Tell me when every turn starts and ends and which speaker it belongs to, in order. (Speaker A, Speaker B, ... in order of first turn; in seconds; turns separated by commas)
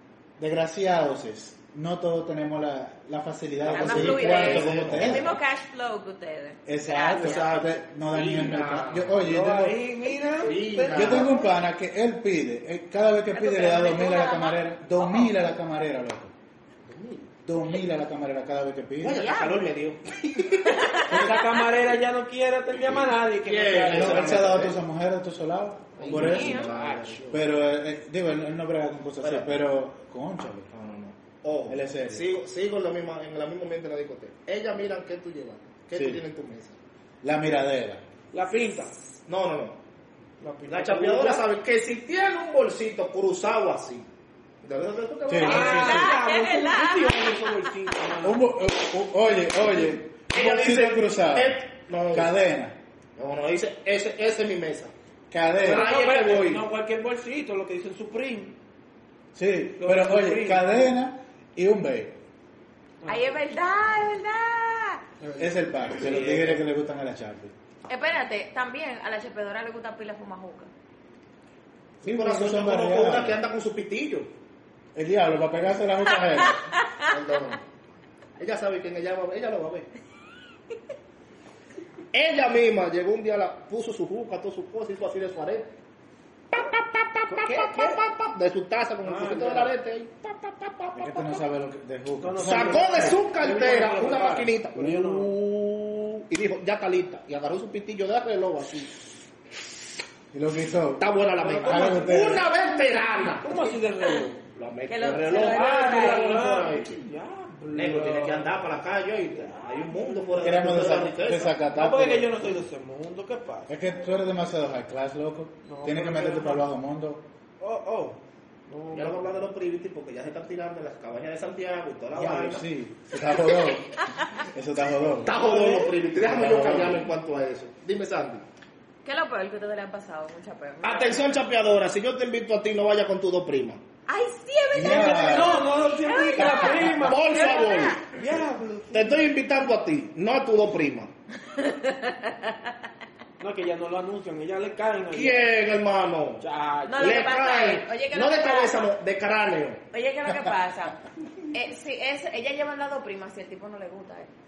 Speaker A: 0.4-5.3, Speaker B: 3.6-5.3, Speaker C: 3.7-7.5, Speaker A: 6.7-9.8, Speaker B: 7.1-9.2, Speaker D: 9.1-11.4, Speaker B: 10.4-11.4, Speaker A: 10.9-16.3, Speaker C: 13.3-15.3, Speaker B: 16.8-17.3, Speaker A: 17.4-19.4, Speaker B: 19.0-21.3, Speaker C: 19.1-19.7, Speaker C: 20.6-21.3, Speaker D: 21.1-24.5, Speaker B: 23.4-24.8, Speaker A: 23.9-26.7, Speaker B: 26.0-27.4, Speaker D: 26.1-27.4, Speaker C: 26.1-26.7, Speaker A: 27.3-30.7, Speaker B: 29.2-29.6, Speaker B: 30.7-36.8, Speaker A: 31.7-32.3, Speaker A: 35.9-36.2, Speaker A: 37.2-38.0, Speaker D: 38.3-38.9, Speaker B: 39.2-39.8, Speaker D: 40.4-41.5, Speaker B: 40.7-44.1, Speaker B: 44.6-46.0, Speaker A: 45.3-46.2, Speaker D: 45.4-48.4, Speaker C: 45.4-47.7, Speaker A: 48.2-52.8, Speaker B: 50.3-52.3, Speaker B: 53.2-54.9, Speaker A: 55.3-55.9, Speaker B: 55.6-56.6, Speaker D: 55.6-58.5, Speaker A: 59.3-62.2, Speaker D: 59.8-60.9, Speaker D: 63.0-63.3, Speaker C: 63.1-65.0, Speaker D: 65.2-66.3, Speaker A: 65.4-67.5, Speaker B: 66.0-66.6, Speaker C: 67.9-70.7, Speaker B: 72.0-74.3, Speaker A: 72.0-73.4, Speaker A: 74.9-76.7, Speaker B: 77.0-77.6, Speaker B: 78.4-79.9, Speaker B: 82.1-85.7, Speaker B: 86.5-91.4, Speaker D: 87.3-88.0, Speaker D: 89.0-89.7, Speaker A: 90.9-93.2, Speaker D: 92.2-95.3, Speaker B: 92.4-95.3, Speaker A: 95.0-96.2, Speaker B: 96.3-99.0, Speaker A: 100.3-101.1, Speaker B: 101.0-103.6, Speaker D: 101.4-102.4, Speaker A: 101.6-102.5, Speaker D: 103.4-104.4, Speaker B: 104.5-107.0, Speaker C: 104.9-106.4, Speaker D: 105.3-108.7, Speaker B: 107.7-111.5, Speaker D: 109.3-110.7, Speaker A: 110.4-112.5, Speaker D: 111.7-113.7, Speaker A: 113.7-117.3, Speaker D: 115.6-116.7, Speaker D: 117.6-119.4, Speaker B: 118.9-122.6, Speaker A: 122.1-125.4, Speaker B: 125.2-128.4, Speaker D: 125.3-126.0, Speaker A: 126.1-127.1, Speaker C: 129.0-131.2, Speaker B: 130.8-133.8, Speaker C: 134.1-138.0, Speaker A: 134.7-135.6, Speaker D: 134.8-137.5, Speaker B: 136.7-138.1, Speaker D: 138.1-139.2, Speaker B: 138.9-141.1, Speaker C: 141.5-142.7, Speaker D: 143.4-145.5, Speaker B: 145.1-146.4, Speaker D: 146.4-147.2, Speaker C: 146.9-148.8, Speaker B: 147.0-149.8, Speaker C: 149.9-151.0, Speaker A: 150.3-150.5, Speaker C: 151.5-154.3